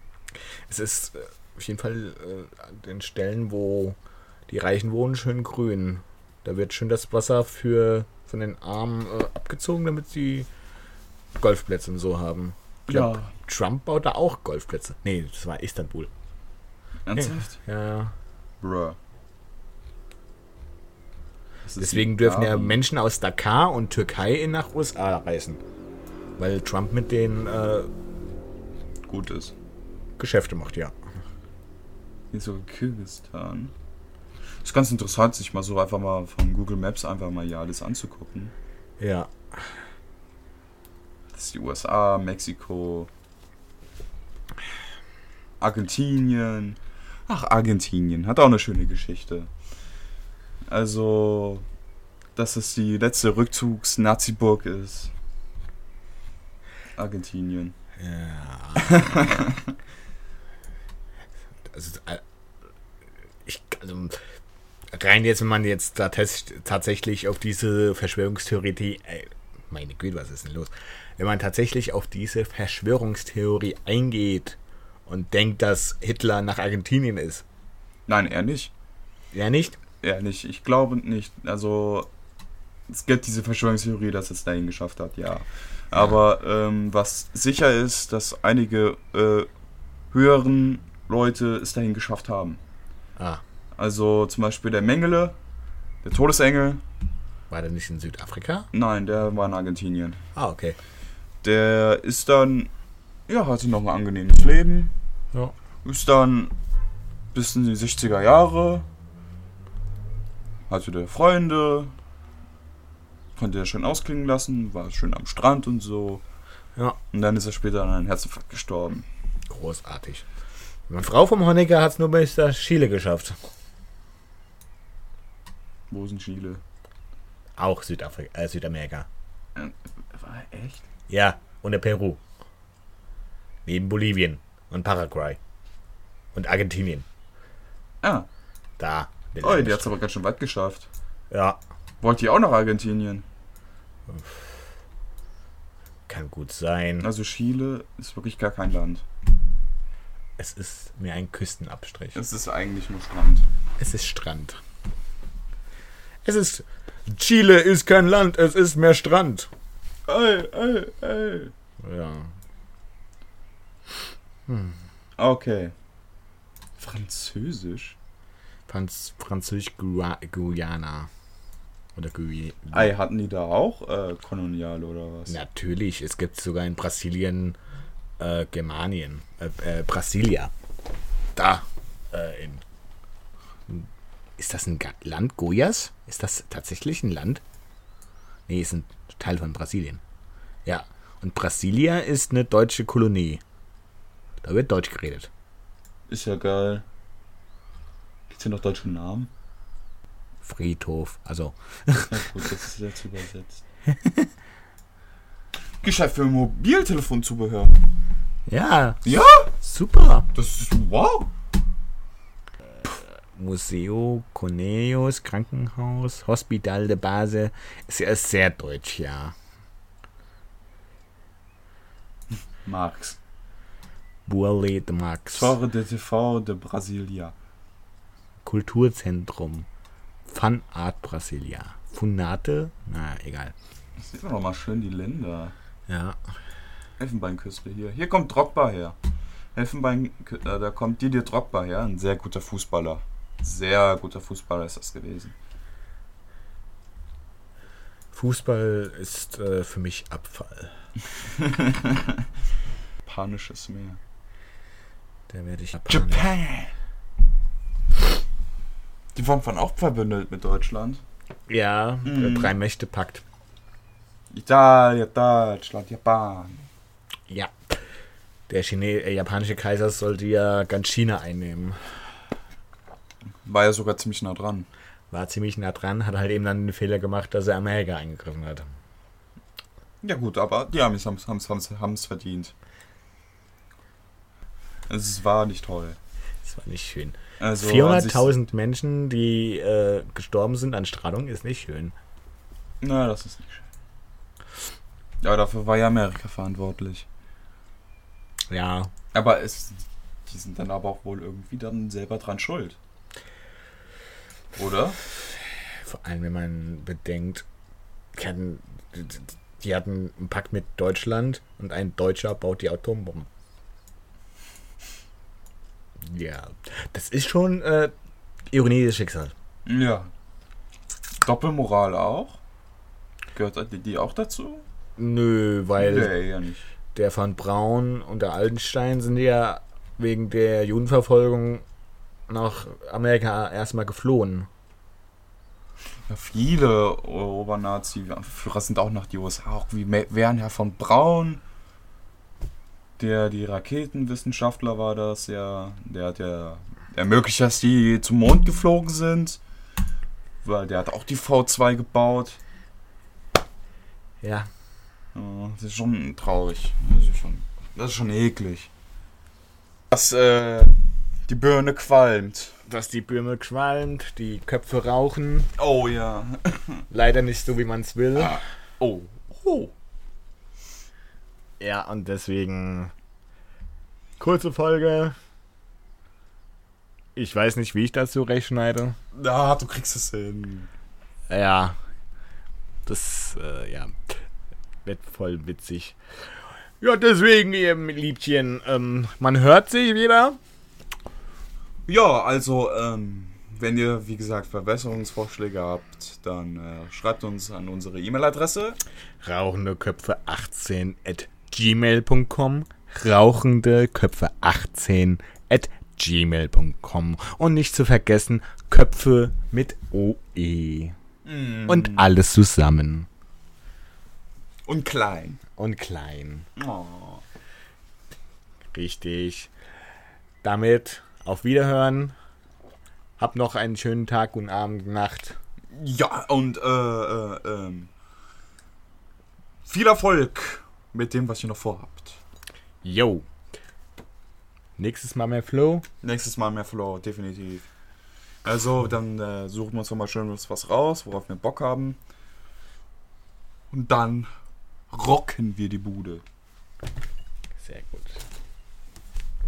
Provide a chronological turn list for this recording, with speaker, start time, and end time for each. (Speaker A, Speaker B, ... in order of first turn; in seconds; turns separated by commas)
Speaker A: 0.3-10.5, Speaker A: 11.4-16.1, Speaker B: 12.9-13.3, Speaker B: 17.0-17.6, Speaker A: 17.1-18.1, Speaker B: 18.6-19.0, Speaker B: 21.6-22.8, Speaker A: 21.8-25.6, Speaker A: 26.4-27.9, Speaker B: 29.0-29.5, Speaker A: 30.2-30.9, Speaker B: 32.3-33.7, Speaker B: 34.6-38.5, Speaker A: 39.0-39.7, Speaker B: 41.3-43.1, Speaker B: 45.6-49.5, Speaker B: 50.7-51.6, Speaker B: 52.4-55.1, Speaker B: 57.0-57.7, Speaker A: 58.0-59.1, Speaker B: 58.8-59.7, Speaker A: 61.7-62.2, Speaker A: 63.4-64.2, Speaker A: 64.9-77.4, Speaker B: 78.1-78.7, Speaker A: 79.3-79.8, Speaker B: 80.0-82.1, Speaker B: 82.9-89.5, Speaker B: 90.1-92.6, Speaker B: 93.7-95.3, Speaker B: 96.0-96.8, Speaker A: 97.5-98.7, Speaker B: 98.7-100.2, Speaker A: 100.3-100.8, Speaker B: 101.4-102.7, Speaker B: 103.3-104.9, Speaker B: 105.8-106.5, Speaker B: 107.3-108.9, Speaker B: 110.7-111.9, Speaker B: 113.3-116.2, Speaker B: 117.1-119.0, Speaker A: 119.5-120.3, Speaker A: 120.9-123.3, Speaker B: 125.9-126.6, Speaker A: 127.6-129.1, Speaker B: 129.5-130.9, Speaker A: 131.1-132.2, Speaker A: 133.7-135.4, Speaker A: 136.3-137.1, Speaker B: 138.0-138.3, Speaker A: 138.8-140.0, Speaker B: 139.4-140.9, Speaker A: 141.3-141.6, Speaker B: 142.0-143.2, Speaker A: 146.1-147.1, Speaker B: 147.0-149.0, Speaker A: 150.4-152.2, Speaker B: 152.1-153.5, Speaker A: 153.8-154.6, Speaker A: 156.2-159.5, Speaker B: 160.1-161.5, Speaker A: 161.8-162.3, Speaker A: 164.5-164.8, Speaker B: 165.2-165.7, Speaker B: 166.8-167.9, Speaker A: 168.7-171.1, Speaker A: 171.9-172.9, Speaker B: 172.7-175.3, Speaker A: 175.3-177.6, Speaker A: 178.2-180.5, Speaker A: 181.3-182.6, Speaker A: 184.4-187.4, Speaker A: 188.5-190.0, Speaker A: 190.6-193.4, Speaker A: 194.4-195.3, Speaker B: 196.1-196.8, Speaker B: 198.3-199.3, Speaker A: 200.4-202.2, Speaker B: 202.1-203.6, Speaker A: 203.9-204.3, Speaker B: 205.8-207.8, Speaker A: 208.5-210.3, Speaker B: 209.0-209.5, Speaker B: 210.3-211.3, Speaker A: 213.3-219.3, Speaker B: 222.6-223.2, Speaker A: 224.3-225.6, Speaker B: 225.3-227.3, Speaker A: 228.4-229.7, Speaker A: 230.3-233.5, Speaker B: 234.0-235.5, Speaker A: 235.9-236.2, Speaker B: 237.0-238.9, Speaker B: 239.5-245.3, Speaker A: 248.1-250.7, Speaker B: 251.3-252.2, Speaker B: 253.0-254.0, Speaker A: 255.3-256.3, Speaker B: 255.9-256.7, Speaker B: 259.1-261.0, Speaker A: 261.5-263.2, Speaker B: 262.0-262.5, Speaker B: 264.3-266.6, Speaker A: 267.3-267.7, Speaker A: 268.5-271.8, Speaker B: 273.4-274.7, Speaker A: 275.1-278.7, Speaker B: 280.0-282.5, Speaker B: 284.9-286.0, Speaker A: 286.4-291.9, Speaker B: 287.4-288.3, Speaker B: 292.8-293.6, Speaker B: 295.2-297.1, Speaker A: 298.5-298.9, Speaker B: 299.1-302.8, Speaker B: 304.5-305.0, Speaker A: 305.8-307.4, Speaker A: 308.1-313.3, Speaker A: 316.0-317.9, Speaker A: 318.5-319.3, Speaker B: 319.6-320.1, Speaker B: 321.2-322.4, Speaker B: 323.3-324.6, Speaker A: 325.0-326.1, Speaker B: 325.8-326.7, Speaker A: 326.9-331.6, Speaker A: 332.3-334.5, Speaker B: 336.1-341.4, Speaker B: 343.0-349.4, Speaker B: 350.4-352.4, Speaker A: 354.2-354.5, Speaker B: 355.1-358.7, Speaker B: 359.9-360.8, Speaker B: 361.3-362.5, Speaker A: 362.6-365.5, Speaker B: 365.6-366.8, Speaker A: 366.9-368.4, Speaker B: 368.1-369.7, Speaker A: 371.6-372.9, Speaker A: 374.2-375.1, Speaker A: 377.1-379.0, Speaker B: 379.1-380.7, Speaker A: 381.3-381.8, Speaker A: 382.9-384.2, Speaker A: 384.9-386.0, Speaker A: 386.8-390.4, Speaker B: 391.9-398.8, Speaker A: 399.2-410.9, Speaker B: 411.2-412.1, Speaker A: 411.7-413.1, Speaker B: 414.6-415.4, Speaker A: 415.6-416.5, Speaker B: 416.6-417.2, Speaker A: 418.7-419.5, Speaker A: 420.4-422.1, Speaker A: 423.2-425.4, Speaker B: 425.7-427.9, Speaker B: 429.6-432.2, Speaker A: 432.8-433.2, Speaker A: 434.8-435.9, Speaker B: 436.0-437.7, Speaker B: 438.4-442.0, Speaker B: 443.7-444.3, Speaker B: 444.9-446.2, Speaker A: 447.6-448.2